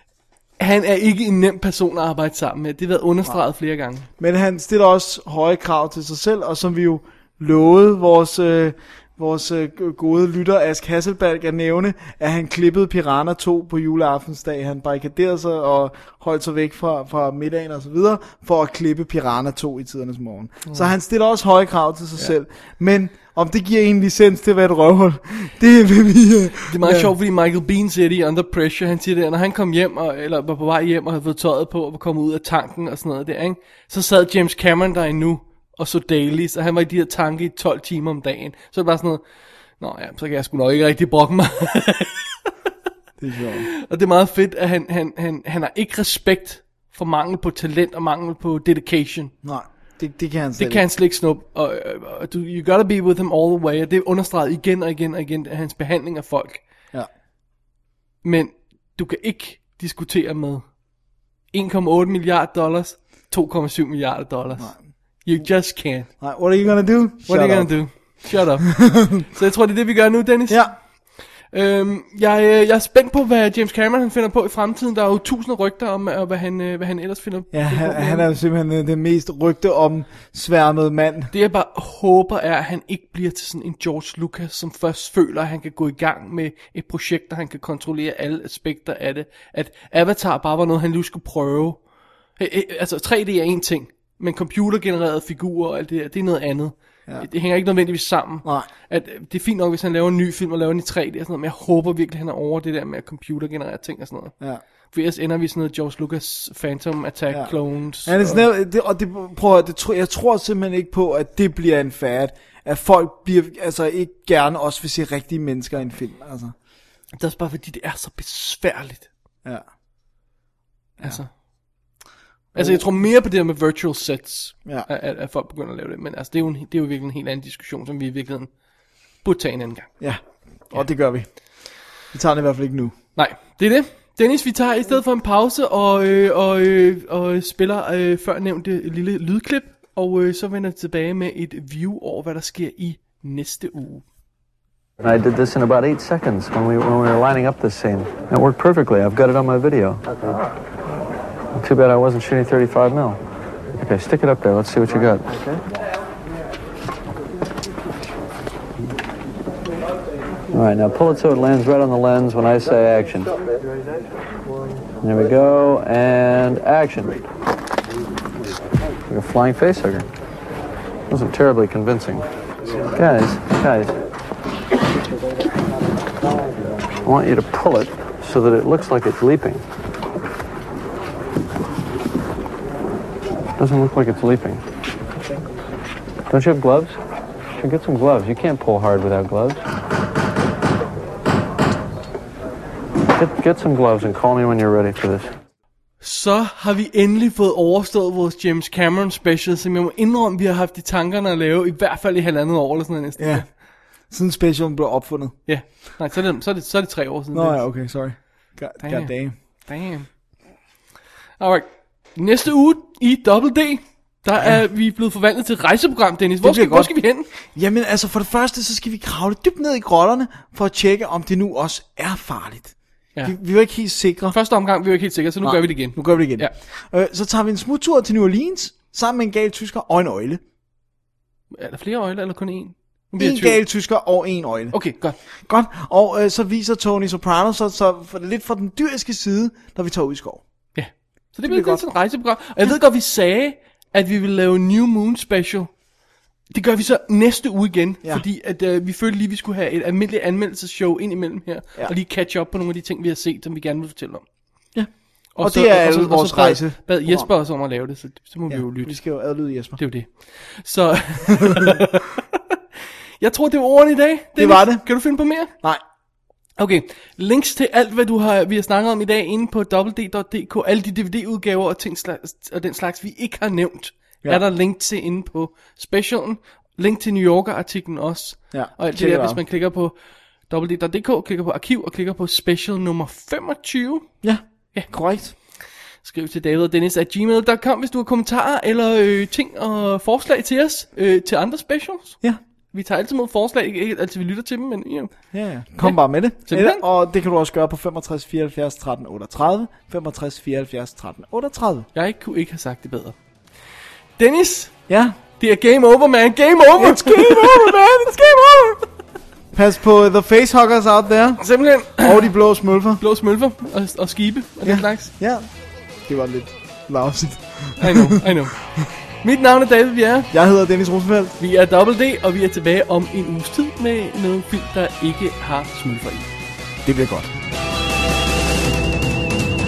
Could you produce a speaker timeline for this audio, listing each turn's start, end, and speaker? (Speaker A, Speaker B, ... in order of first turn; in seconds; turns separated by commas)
Speaker A: 0.6-4.1, Speaker B: 4.2-27.1, Speaker A: 26.7-39.2, Speaker A: 39.8-42.5, Speaker B: 43.2-43.7, Speaker A: 43.5-49.3, Speaker B: 49.4-50.9, Speaker A: 50.6-56.6, Speaker A: 58.2-60.8, Speaker A: 61.5-66.1, Speaker B: 64.6-64.9, Speaker B: 66.2-68.2, Speaker A: 67.3-78.3, Speaker B: 68.8-69.2, Speaker B: 70.5-70.7, Speaker B: 77.5-81.3, Speaker A: 81.3-91.8, Speaker A: 92.4-104.4, Speaker A: 104.9-108.4, Speaker B: 107.3-116.5, Speaker A: 117.1-119.1, Speaker A: 121.0-121.3, Speaker A: 122.5-128.5, Speaker B: 122.5-122.9, Speaker A: 129.2-130.1, Speaker B: 130.0-132.9, Speaker A: 133.2-144.0, Speaker C: 145.0-150.0, Speaker C: 151.5-153.2, Speaker C: 153.7-155.6, Speaker C: 160.5-163.3, Speaker C: 165.0-167.2, Speaker C: 169.1-170.1, Speaker C: 171.1-172.3, Speaker C: 172.8-173.9, Speaker C: 177.0-179.6, Speaker C: 183.6-184.6, Speaker C: 186.3-186.9, Speaker C: 187.6-189.6, Speaker C: 193.2-195.3, Speaker A: 196.0-203.5, Speaker B: 203.2-203.6, Speaker B: 204.1-205.4, Speaker A: 205.5-207.6, Speaker B: 207.3-209.4, Speaker A: 208.8-210.1, Speaker A: 211.4-217.3, Speaker B: 214.3-214.6, Speaker B: 216.4-224.4, Speaker A: 224.3-226.5, Speaker B: 225.4-230.4, Speaker A: 231.5-233.6, Speaker B: 233.2-240.4, Speaker A: 234.7-235.2, Speaker A: 240.7-245.8, Speaker B: 241.4-241.9, Speaker A: 246.5-254.3, Speaker B: 254.7-257.3, Speaker A: 255.3-262.2, Speaker B: 258.5-259.8, Speaker A: 263.2-265.5, Speaker B: 264.4-265.0, Speaker B: 265.5-265.8, Speaker A: 266.6-279.9, Speaker B: 278.5-279.4, Speaker A: 280.5-284.2, Speaker B: 284.2-285.3, Speaker A: 284.7-295.1, Speaker B: 295.3-301.9, Speaker A: 295.8-296.8, Speaker A: 301.9-303.2, Speaker A: 304.2-304.8, Speaker B: 304.9-305.2, Speaker A: 305.4-308.8, Speaker B: 306.8-308.3, Speaker B: 309.5-313.0, Speaker A: 311.4-312.3, Speaker A: 313.0-315.1, Speaker B: 314.6-315.5, Speaker B: 316.0-318.2, Speaker A: 317.8-320.3, Speaker B: 320.3-321.4, Speaker A: 321.4-326.3, Speaker B: 326.8-327.3